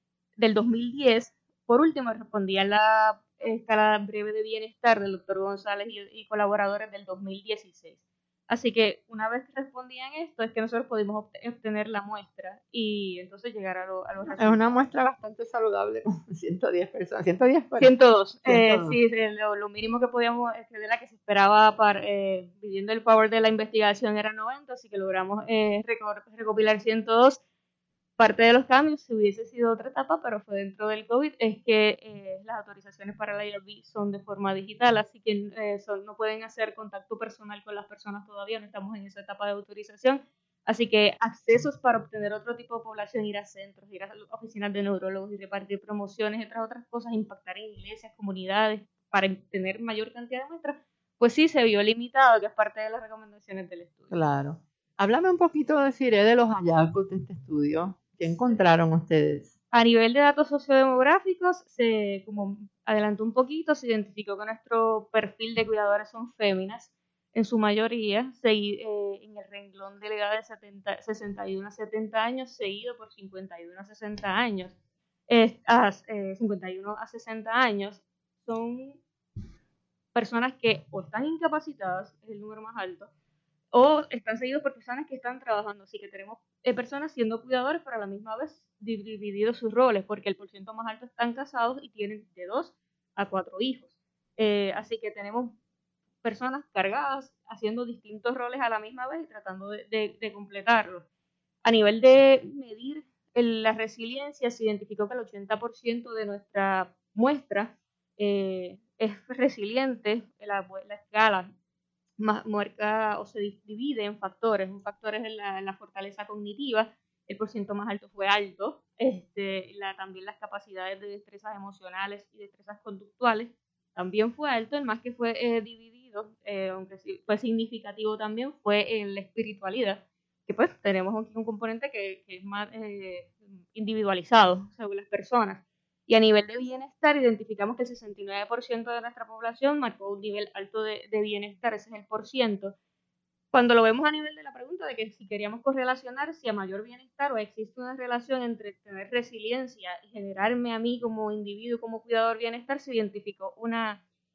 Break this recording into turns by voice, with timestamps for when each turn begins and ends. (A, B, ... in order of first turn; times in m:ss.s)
0:00.4-0:14.8 A
0:14.3-0:17.9 B
0:17.8-0:27.4 A
0:18.4-0:19.0 B
0:28.2-0:54.1 A
0:54.1-0:59.5 B
0:59.7-1:14.7 A
1:15.3-1:19.0 A
1:20.2-1:23.1 A
1:23.7-1:35.6 A
1:36.2-1:41.1 A
1:41.6-1:51.5 A
1:52.2-2:22.7 A
2:23.5-2:34.0 A